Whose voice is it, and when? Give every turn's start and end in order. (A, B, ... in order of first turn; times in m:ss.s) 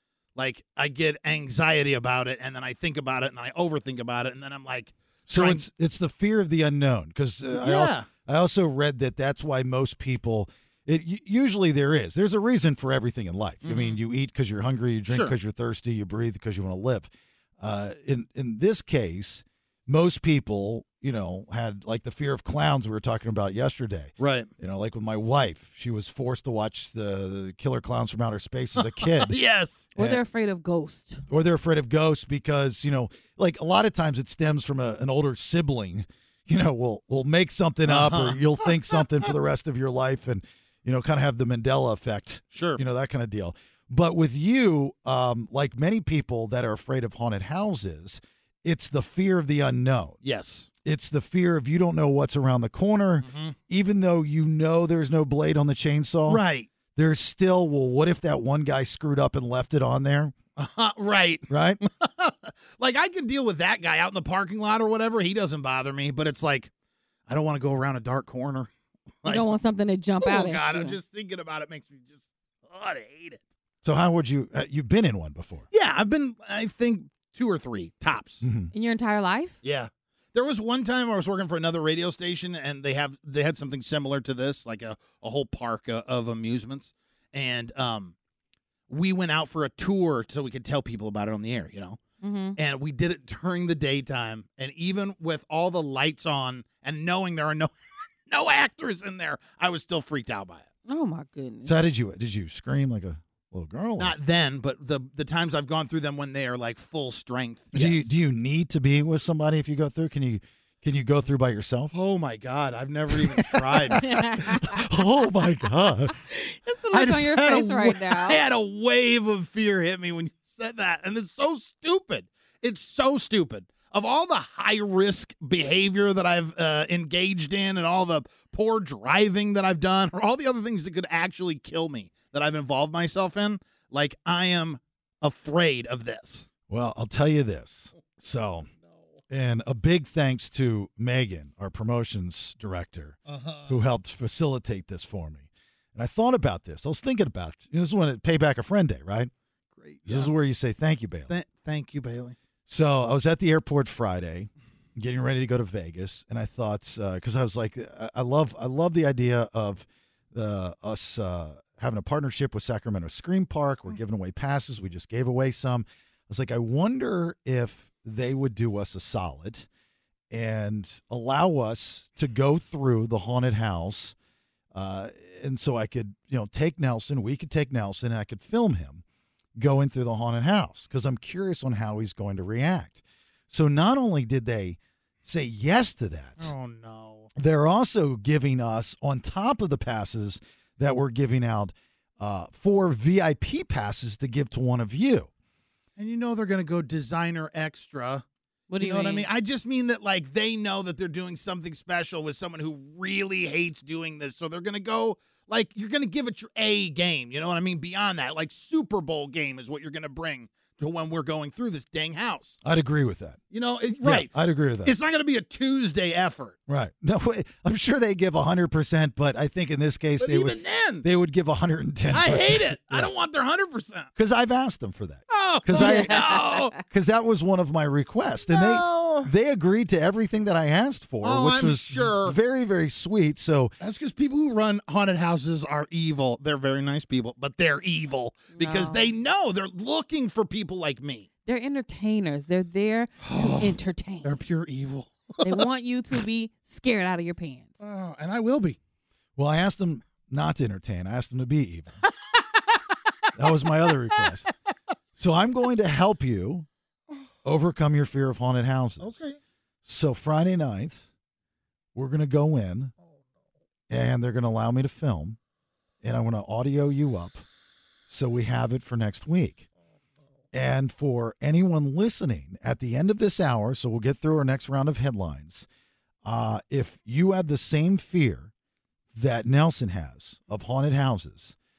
0:00.4-0:05.6 A
0:05.3-0:17.1 B
0:07.5-0:08.1 A
0:13.6-0:14.0 A
0:15.1-0:15.3 A
0:17.6-0:29.3 B
0:24.2-0:24.5 A
0:28.8-0:29.9 A
0:30.0-0:30.2 B
0:30.0-0:31.2 C
0:31.3-0:50.2 B
0:37.8-0:39.0 A
0:42.5-0:42.8 A
0:50.2-0:50.7 A
0:50.8-0:56.4 B
0:53.2-0:53.6 A
0:56.3-0:56.7 A
0:56.9-1:00.3 B
1:00.6-1:01.5 A
1:01.5-1:01.8 B
1:02.0-1:06.7 A
1:07.3-1:08.7 A
1:09.2-1:09.6 A
1:09.2-1:11.0 C
1:10.2-1:13.4 A
1:13.8-1:15.7 B
1:15.7-1:18.4 A
1:18.4-1:18.7 B
1:18.7-1:19.6 C
1:19.6-1:28.1 A
1:28.9-1:32.0 A
1:32.2-1:32.6 C
1:32.6-1:37.7 A
1:38.3-1:40.7 A
1:40.8-1:41.8 C
1:41.6-1:44.1 B
1:44.0-1:48.1 A
1:47.7-1:51.9 B
1:51.9-1:54.1 A
1:53.2-1:56.1 B
1:54.0-1:54.8 C
1:56.3-1:58.4 C
1:56.9-2:16.5 A
2:16.7-2:18.7 B
2:19.3-2:29.3 B
2:23.3-2:23.7 A
2:29.8-2:30.3 A
2:30.0-2:31.3 B
2:31.3-2:32.4 A
2:32.7-2:49.7 B
2:50.3-2:54.1 B
2:54.7-2:59.0 B
2:59.6-3:06.5 B
3:06.4-3:07.3 A
3:07.4-3:15.3 B
3:16.0-3:18.2 A
3:18.7-3:19.3 C
3:18.8-3:32.6 A
3:32.6-3:33.4 B
3:33.5-3:34.3 A
3:34.0-3:34.9 B
3:34.8-3:36.6 A
3:36.7-3:43.1 B
3:40.2-3:41.0 A
3:42.1-3:44.1 A
3:44.1-3:46.2 B
3:45.3-3:46.7 A
3:45.8-3:46.6 C
3:46.8-3:53.7 B
3:48.5-3:49.3 A
3:51.2-3:52.4 A
3:53.8-4:01.3 A
3:58.5-3:59.1 C
4:01.4-4:04.3 C
4:03.2-4:05.6 A
4:05.4-4:07.8 C
4:07.8-4:08.8 A
4:09.4-4:12.0 B
4:13.4-4:14.5 B
4:15.2-4:16.6 B
4:17.4-4:19.2 B
4:19.0-4:19.4 A
4:19.8-4:21.1 B
4:21.9-4:22.9 B
4:23.9-4:25.4 B
4:26.0-4:27.4 B
4:28.1-4:29.7 B
4:30.5-4:35.7 B
4:36.2-4:38.5 B
4:39.1-4:41.6 B